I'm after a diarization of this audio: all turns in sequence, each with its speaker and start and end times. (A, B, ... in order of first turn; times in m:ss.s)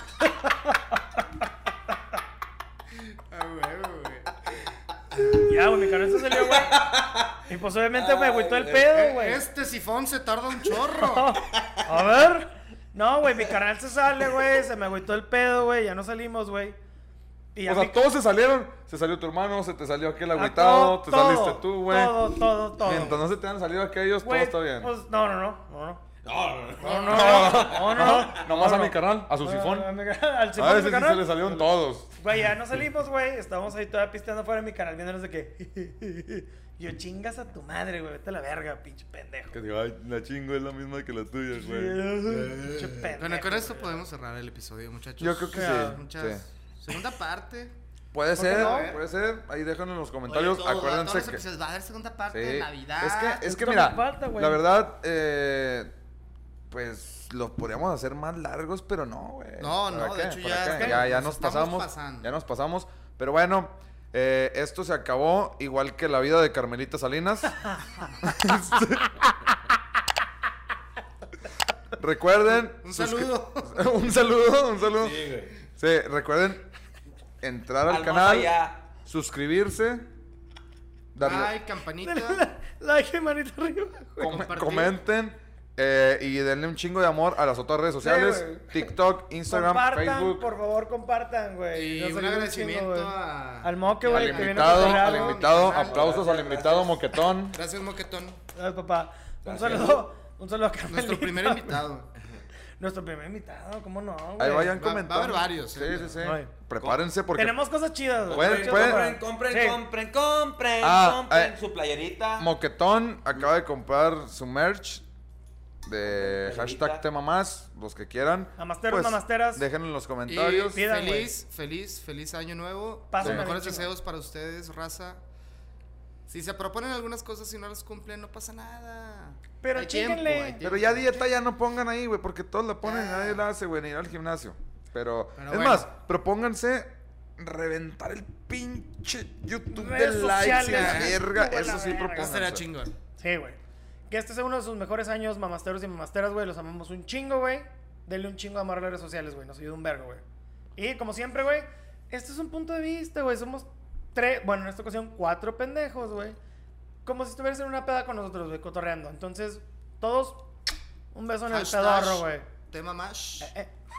0:03.1-0:04.4 A
0:05.2-0:06.9 B
0:06.4-0:07.4 C
0:07.4-0:09.4 B
0:07.9-0:08.9 C
0:08.8-0:11.4 A
0:11.0-0:16.8 B
0:17.6-0:18.0 B
0:17.6-0:24.9 D
0:20.3-0:23.2 B
0:24.2-0:26.0 B
0:26.2-0:28.2 C
0:26.8-0:39.6 B
0:27.0-0:29.9 D
0:30.6-0:32.1 D
0:39.5-0:43.1 D
0:41.5-0:44.0 B
0:43.2-0:47.8 A
0:45.2-0:46.4 D
0:45.5-0:46.0 B
0:48.1-0:51.4 D
0:48.3-0:49.0 B
0:48.4-0:49.0 A
0:50.3-0:53.4 A
0:52.3-0:55.9 D
0:53.4-0:54.6 B
0:56.7-1:09.3 D
0:59.6-1:02.3 A
1:00.7-1:01.1 B
1:12.0-1:16.7 D
1:12.7-1:13.8 A
1:15.0-1:15.5 C
1:17.4-1:20.0 D
1:17.9-1:18.9 C
1:21.1-1:21.6 D
1:21.2-1:22.4 A
1:22.0-1:24.4 B
1:24.2-1:30.5 D
1:24.2-1:25.0 A
1:28.0-1:29.0 B
1:29.5-1:36.8 B
1:31.7-1:36.8 A
1:34.1-1:37.6 D
1:35.8-1:36.5 C
1:37.5-1:38.4 A
1:38.6-1:41.9 B
1:39.4-1:40.0 C
1:40.9-1:42.1 A
1:42.8-1:44.8 B
1:44.4-1:47.6 D
1:44.7-1:46.2 A
1:46.2-1:46.5 B
1:47.4-1:49.8 B
1:48.3-1:52.5 C
1:48.3-1:49.1 D
1:50.8-1:51.5 D
1:52.4-1:55.0 D
1:55.8-2:00.9 D
1:56.0-1:57.0 C
1:58.6-1:59.6 B
2:00.3-2:05.2 A
2:00.7-2:01.4 B
2:03.1-2:03.9 B
2:03.2-2:03.5 D
2:06.3-2:11.3 A
2:09.6-2:10.6 B
2:10.6-2:22.7 D
2:12.8-2:13.4 A
2:15.4-2:15.9 A
2:19.7-2:22.4 B
2:20.6-2:21.2 A
2:22.2-2:23.0 A
2:23.2-2:30.2 B
2:30.8-2:36.4 B
2:37.0-2:40.4 B
2:41.1-2:42.5 B
2:41.5-2:43.5 A
2:43.4-2:43.7 B